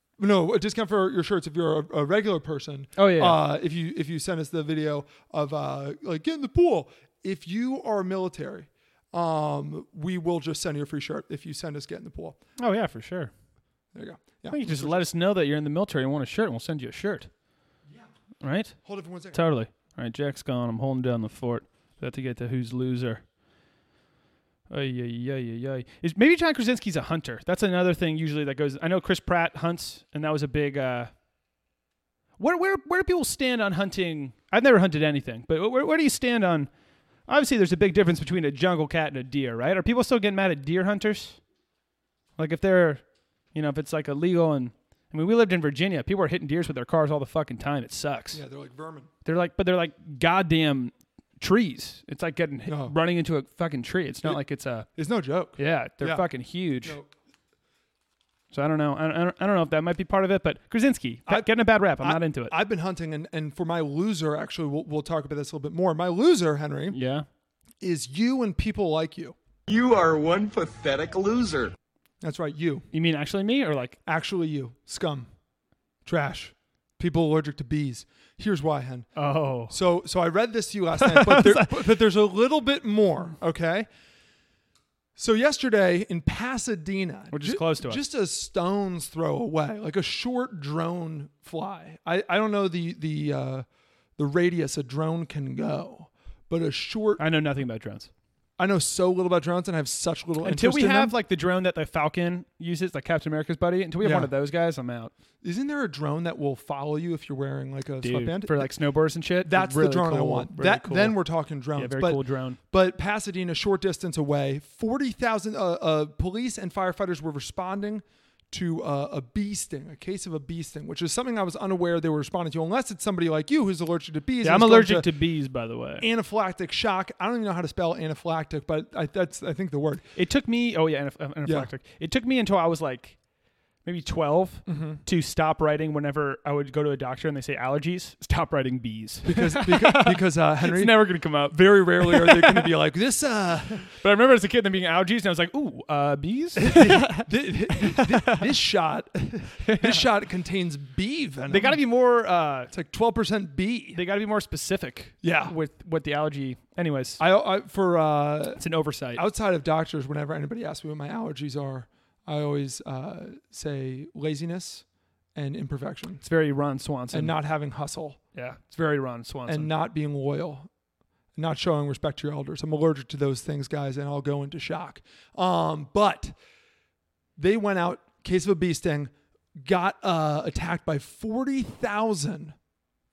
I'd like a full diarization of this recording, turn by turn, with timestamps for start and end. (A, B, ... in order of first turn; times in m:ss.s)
0:00.2-0:12.4 A
0:03.0-0:03.4 B
0:12.6-0:13.3 B
0:13.9-0:15.0 A
0:14.5-0:17.3 B
0:18.4-0:18.8 B
0:18.8-0:19.5 A
0:19.3-0:23.2 B
0:24.7-0:31.1 B
0:32.4-0:36.7 B
0:37.2-0:41.4 B
0:42.4-0:43.0 B
0:43.5-0:48.4 B
0:48.3-0:49.1 A
0:49.2-0:54.9 B
0:52.6-0:53.0 A
0:54.2-0:56.3 A
0:55.6-0:57.0 B
0:56.8-0:57.1 A
0:58.5-1:02.5 B
1:01.3-1:07.0 A
1:06.9-1:07.2 B
1:07.8-1:09.4 A
1:09.7-1:11.7 C
1:12.2-1:12.8 A
1:12.9-1:14.0 B
1:14.0-1:15.3 A
1:16.0-1:19.1 A
1:19.2-1:19.7 B
1:19.6-1:23.9 A
1:21.0-1:21.8 B
1:25.2-1:33.6 A
1:27.3-1:28.0 B
1:34.2-1:37.2 A
1:37.2-1:38.1 B
1:38.6-1:41.1 A
1:40.4-1:45.1 B
1:44.0-1:44.3 A
1:45.4-1:48.7 A
1:48.0-1:51.2 B
1:49.4-2:05.1 A
1:51.7-1:52.6 B
2:04.4-2:06.1 B
2:06.0-2:10.0 A
2:10.2-2:13.2 B
2:11.4-2:11.7 A
2:13.8-2:22.7 B
2:14.6-2:15.0 A
2:19.2-2:23.9 A
2:24.0-2:28.4 B
2:26.6-2:31.8 A
2:29.6-2:30.1 B
2:31.5-2:32.7 B
2:32.7-2:34.0 A
2:33.9-2:37.2 B
2:35.2-2:35.6 A
2:37.2-2:44.8 A
2:38.6-2:39.2 B
2:45.3-2:46.2 A
2:46.2-2:47.4 B
2:47.1-2:48.2 A
2:48.3-2:49.7 B
2:49.5-2:50.7 A
2:51.4-2:56.4 A
2:57.4-3:02.6 A